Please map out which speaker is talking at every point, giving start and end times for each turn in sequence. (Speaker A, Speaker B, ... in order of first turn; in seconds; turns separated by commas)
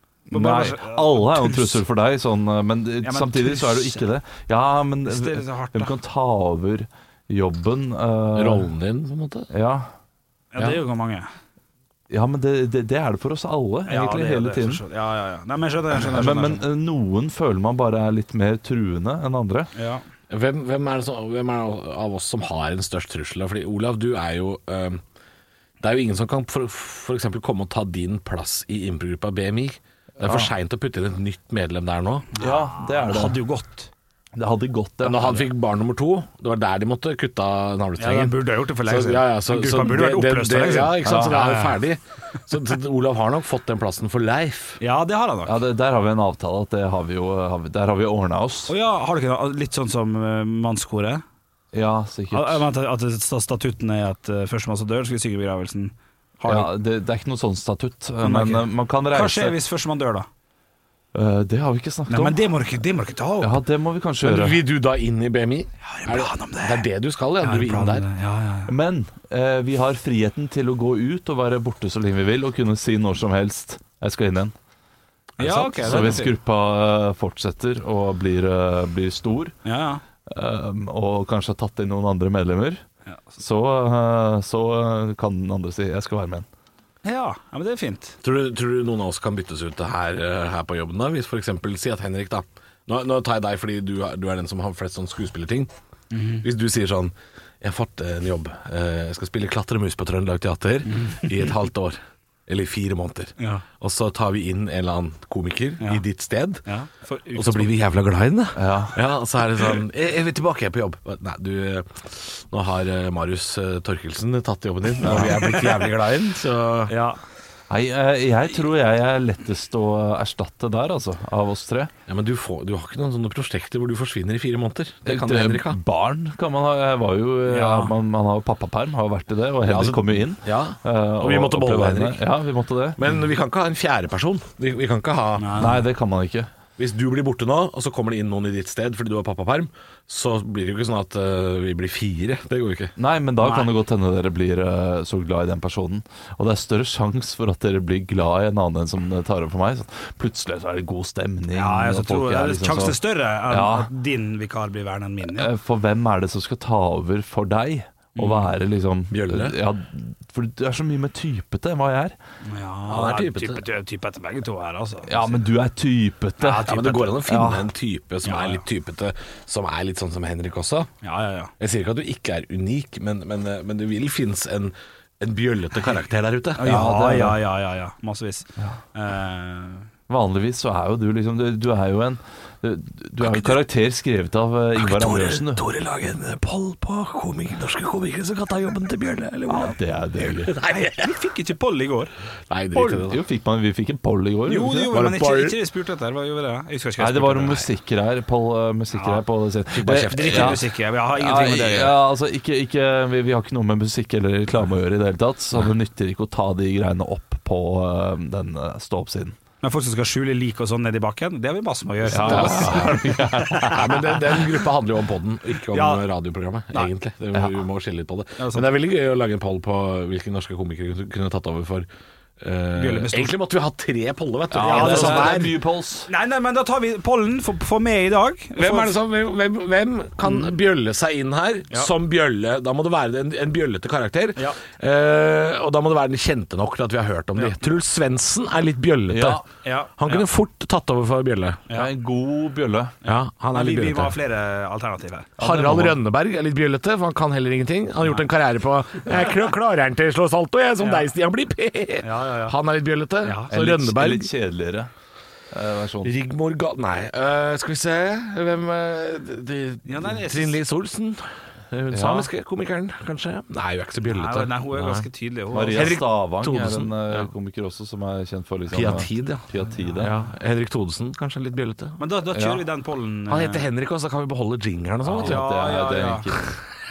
Speaker A: 0.3-1.8, Speaker B: 0.3-8.7, Speaker A: 3.0-4.1, Speaker A: 5.0-5.9, Speaker C: 8.3-9.5, Speaker B: 9.5-9.9, Speaker A: 10.5-11.3, Speaker B: 12.1-14.8, Speaker A: 13.9-16.6, Speaker B: 16.1-19.7, Speaker A: 19.7-20.0, Speaker C: 20.3-25.0, Speaker C: 25.8-32.3, Speaker A: 32.4-33.9, Speaker B: 32.4-33.4, Speaker B: 34.4-35.4, Speaker C: 35.0-44.8, Speaker A: 38.0-41.7, Speaker B: 41.0-41.5, Speaker A: 44.8-45.5, Speaker B: 45.5-48.7, Speaker A: 48.7-51.2, Speaker B: 51.7-52.6, Speaker A: 52.3-56.7, Speaker B: 56.5-59.5, Speaker A: 58.2-60.3, Speaker B: 61.1-62.4, Speaker A: 62.1-63.6, Speaker B: 63.4-64.6, Speaker C: 64.2-68.0, Speaker A: 65.8-66.8, Speaker A: 67.4-68.7, Speaker B: 68.7-74.5, Speaker A: 75.4-76.3, Speaker C: 75.4-76.3, Speaker B: 75.4-79.5, Speaker A: 79.6-80.0, Speaker B: 80.3-82.8, Speaker B: 83.4-86.5, Speaker A: 87.0-88.2, Speaker C: 88.2-95.7, Speaker A: 96.1-96.4, Speaker C: 96.4-106.6, Speaker A: 100.8-101.3, Speaker A: 103.4-103.6, Speaker A: 106.7-107.7, Speaker C: 107.3-116.9, Speaker B: 108.5-109.0, Speaker A: 115.0-115.9, Speaker B: 115.0-115.4, Speaker A: 116.9-117.2, Speaker B: 117.7-121.9, Speaker C: 122.1-125.8, Speaker B: 125.0-133.0, Speaker A: 127.5-127.9, Speaker C: 129.6-132.2, Speaker C: 133.0-135.6, Speaker A: 135.4-135.8, Speaker B: 135.6-136.5, Speaker C: 136.8-142.9, Speaker B: 143.0-153.9, Speaker A: 143.4-143.7, Speaker A: 151.5-155.5, Speaker B: 155.3-162.1, Speaker A: 158.2-158.5, Speaker C: 159.1-159.6, Speaker A: 162.4-165.3, Speaker C: 162.9-163.6, Speaker B: 165.1-167.7, Speaker A: 166.4-167.1, Speaker C: 166.6-170.9, Speaker A: 168.2-168.6, Speaker A: 171.0-171.5, Speaker C: 171.6-176.8, Speaker A: 176.6-179.9, Speaker B: 176.6-177.4, Speaker B: 180.1-185.6, Speaker C: 183.2-183.6, Speaker C: 184.7-191.2, Speaker B: 189.5-190.5, Speaker A: 190.6-192.1, Speaker C: 192.5-193.2, Speaker B: 192.7-194.9, Speaker A: 194.5-197.7, Speaker C: 194.9-195.6, Speaker B: 197.0-209.3, Speaker A: 198.9-199.2, Speaker C: 199.7-200.6, Speaker A: 200.1-201.9, Speaker A: 209.6-214.2, Speaker B: 212.1-214.1, Speaker C: 212.2-213.0, Speaker C: 213.7-221.9, Speaker A: 215.7-216.0, Speaker A: 218.4-218.7, Speaker C: 222.4-225.5, Speaker A: 222.8-223.3, Speaker B: 224.5-226.1, Speaker A: 224.6-225.5, Speaker A: 226.1-228.9, Speaker C: 228.6-239.4, Speaker B: 239.1-239.4, Speaker A: 239.6-240.3, Speaker C: 240.0-241.7, Speaker B: 241.7-242.9, Speaker C: 243.0-244.2, Speaker A: 243.0-245.4, Speaker B: 245.4-246.0, Speaker C: 245.4-254.3, Speaker A: 250.8-251.1, Speaker A: 252.0-252.6, Speaker A: 253.2-253.5, Speaker B: 253.5-254.9, Speaker B: 255.5-256.1, Speaker C: 256.0-265.1, Speaker A: 259.8-260.6, Speaker B: 261.9-262.3, Speaker A: 264.0-266.0, Speaker B: 265.5-270.1, Speaker C: 265.7-267.3, Speaker C: 268.7-272.0, Speaker A: 272.0-273.7, Speaker B: 272.3-272.6, Speaker C: 273.3-275.4, Speaker B: 275.1-276.4, Speaker A: 275.2-276.3